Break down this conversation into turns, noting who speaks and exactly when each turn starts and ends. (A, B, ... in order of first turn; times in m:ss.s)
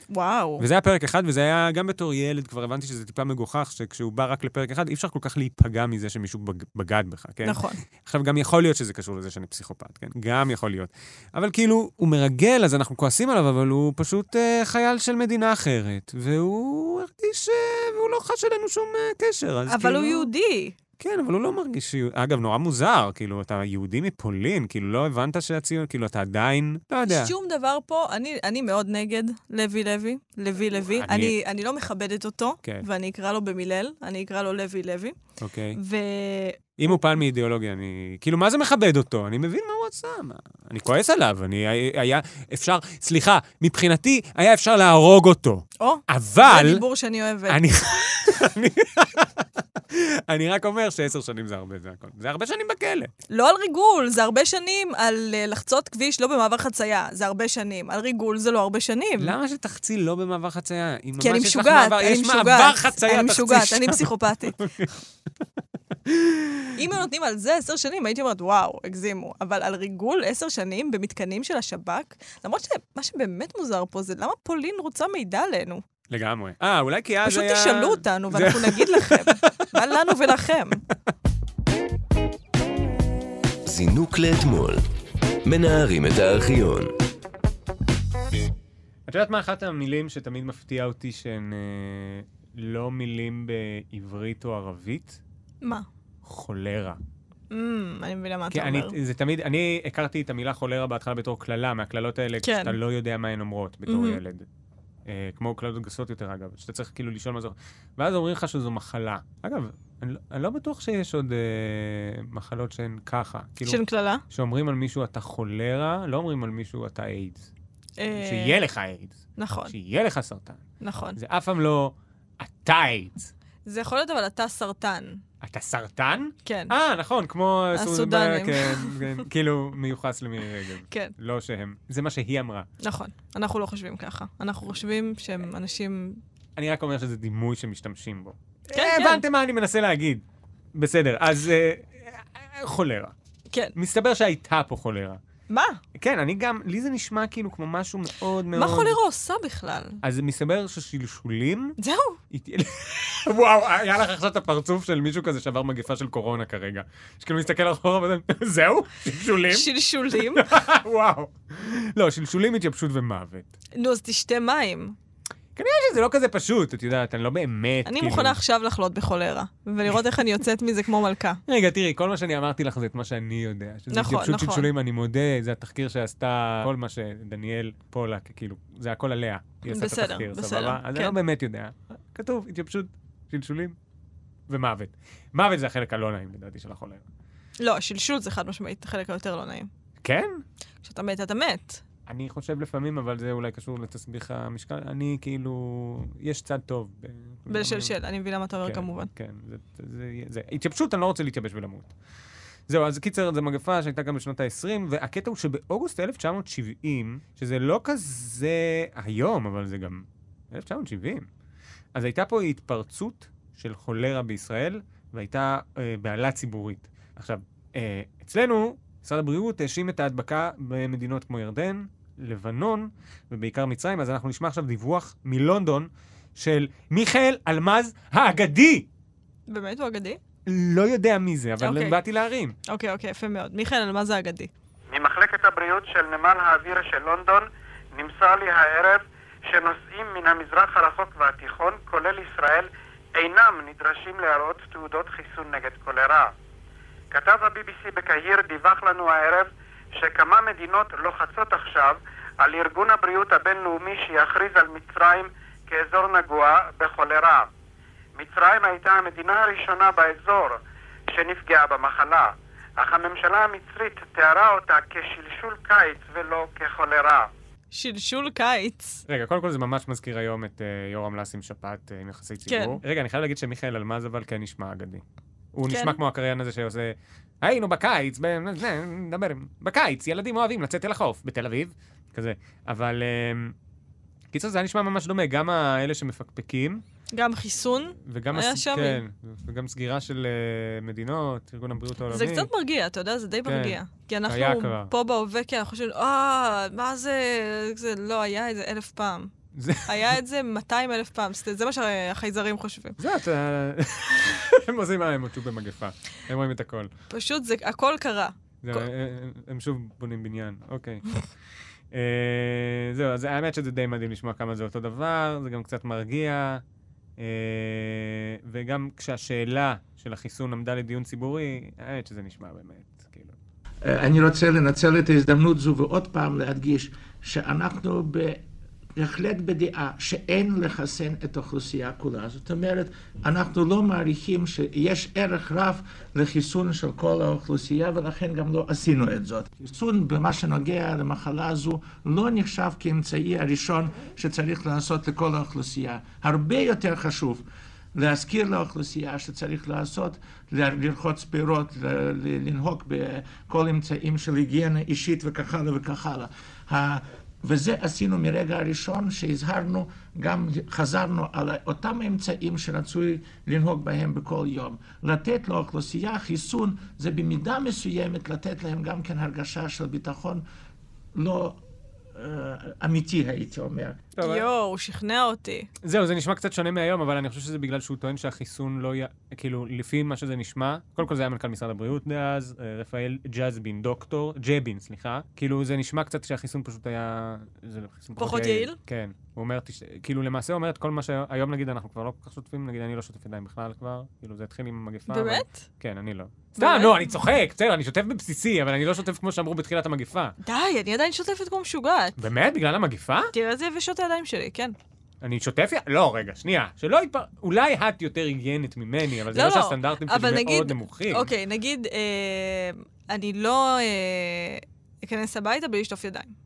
0:00.1-0:00.6 A
0:00.6-0:20.3 B
0:07.4-0:07.8 A
0:19.7-0:20.7 A
0:21.0-0:27.3 B
0:27.1-0:35.2 A
0:30.9-0:31.4 B
0:35.4-0:35.8 B
0:35.8-0:36.9 A
0:36.8-0:46.8 B
0:45.8-0:47.6 A
0:47.5-0:53.1 B
0:53.3-0:59.3 A
0:59.2-1:04.9 B
1:01.2-1:04.6 A
1:06.0-1:06.6 B
1:06.7-1:15.8 A
1:16.1-1:19.7 B
1:17.2-1:20.8 A
1:23.6-1:24.8 C
1:25.4-1:26.9 C
1:29.1-1:35.2 B
1:36.2-1:37.0 B
1:37.5-1:38.9 A
1:38.5-1:44.4 B
1:42.4-1:42.8 A
1:43.9-1:44.2 A
1:45.1-1:57.5 B
1:53.6-1:54.2 A
1:58.0-1:58.6 A
1:58.2-2:00.6 B
1:59.4-1:59.7 A
2:00.8-2:01.2 A
2:01.2-2:03.3 B
2:03.7-2:05.2 A
2:05.4-2:12.7 B
2:06.4-2:06.7 A
2:07.7-2:09.0 A
2:12.8-2:16.2 A
2:16.6-2:20.2 B
2:18.7-2:19.2 A
2:20.7-2:23.1 B
2:23.8-2:25.2 B
2:25.5-2:25.8 A
2:26.0-2:29.0 B
2:28.5-2:30.0 A
2:30.0-2:31.8 B
2:31.8-2:32.2 A
2:32.3-2:43.5 B
2:39.5-2:40.5 A
2:43.8-2:45.0 A
2:45.6-2:48.4 B
2:47.8-2:51.4 A
2:51.5-3:03.8 B
2:53.9-2:54.7 A
2:59.7-3:01.2 A
3:04.5-3:07.0 B
3:07.6-3:09.7 A
3:10.0-3:10.4 B
3:10.8-3:11.8 A
3:12.1-3:17.9 B
3:17.5-3:19.1 A
3:18.6-3:21.9 B
3:22.7-3:31.3 B
3:31.9-3:48.9 B
3:49.5-3:50.2 A
3:50.4-3:52.6 B
3:51.6-3:52.0 A
3:52.7-3:54.5 A
3:54.9-4:06.3 D
4:07.1-4:17.5 D
4:18.2-4:20.6 D
4:21.1-4:27.3 D
4:27.7-4:29.0 A
4:29.1-4:35.0 B
4:32.5-4:32.8 A
4:35.5-4:43.5 B
4:35.7-4:36.0 A
4:44.3-4:46.8 B
4:47.1-4:49.0 A
4:48.0-4:52.5 B
4:52.1-4:59.3 A
4:53.4-4:54.9 B
4:59.6-5:00.1 B
4:59.8-5:03.0 A
5:03.0-5:06.9 B
5:07.1-5:08.8 A
5:08.6-5:11.1 B
5:11.9-5:16.6 B
5:17.2-5:23.4 B
5:23.8-5:28.4 E
5:29.0-5:47.4 E
5:47.9-6:10.4 E
6:11.1-6:11.6 E
6:12.1-6:14.0 E
6:14.2-6:14.5 B
6:14.2-6:15.7 A
6:15.8-6:40.4 B
6:28.2-6:28.8 A
6:35.1-6:35.6 A
6:36.6-6:37.0 A
6:40.4-6:42.1 A
6:42.2-6:43.3 B
6:43.3-6:44.8 A
6:45.2-6:51.3 B
6:49.3-6:56.3 A